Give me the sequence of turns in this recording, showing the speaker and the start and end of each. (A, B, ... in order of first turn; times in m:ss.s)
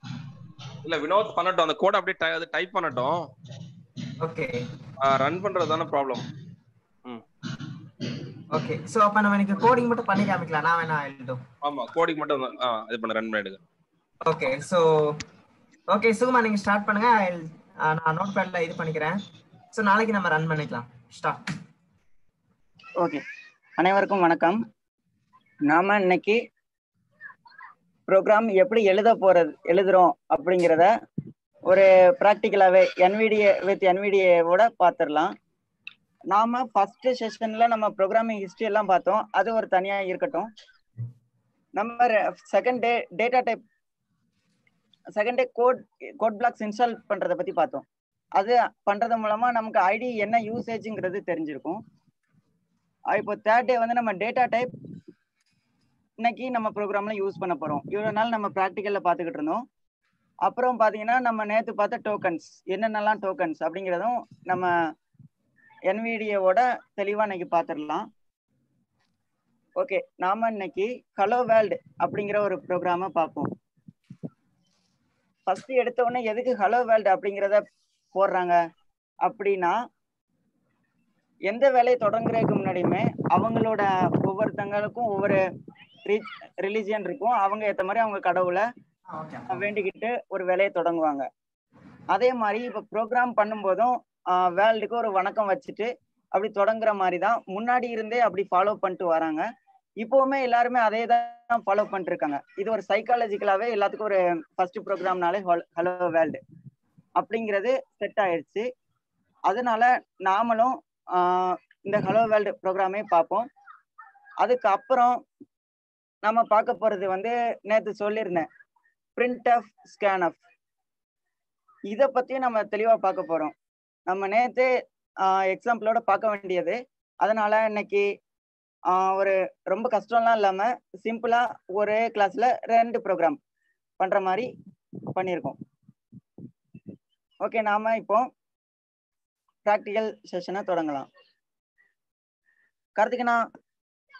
0:00.8-0:03.3 A
0:04.2-0:04.7 B
0:05.0-0:06.2 A
0:08.5-0:11.4 B
0:11.6-0:13.6 A
0:14.2-0:15.2 B
0:15.9-0:19.2 B
0:19.7-0:21.4 B
0:23.8-0:24.6 C
0:25.6-0:26.4 C
0:28.1-0:30.9 C
0:31.7-0:35.3 C
0:36.3-0:40.5 C
0:41.8-0:43.6 C
0:45.2-0:47.8 C
0:48.4-0:51.8 C
0:53.1-0:54.7 C
0:56.2-0:59.6 C
1:00.4-1:04.7 C
1:05.9-1:08.0 C
1:09.8-1:13.5 C
1:15.5-1:17.6 C
1:18.1-1:18.6 C
1:19.2-1:19.7 C
1:21.5-1:25.4 C
1:26.0-1:28.6 C
1:29.1-1:29.7 B
1:29.5-1:31.3 C
1:32.1-1:39.4 C
1:40.0-1:46.4 C
1:47.2-1:48.7 C
1:49.5-1:53.4 C
1:54.4-1:55.2 C
1:56.2-1:58.5 C
1:59.2-2:00.4 C
2:01.9-2:03.5 C
2:04.1-2:04.7 C
2:05.2-2:08.1 C
2:08.9-2:13.4 C
2:14.0-2:14.5 C
2:15.1-2:15.6 C
2:17.4-2:18.2 C
2:19.6-2:21.1 C
2:23.0-2:23.4 C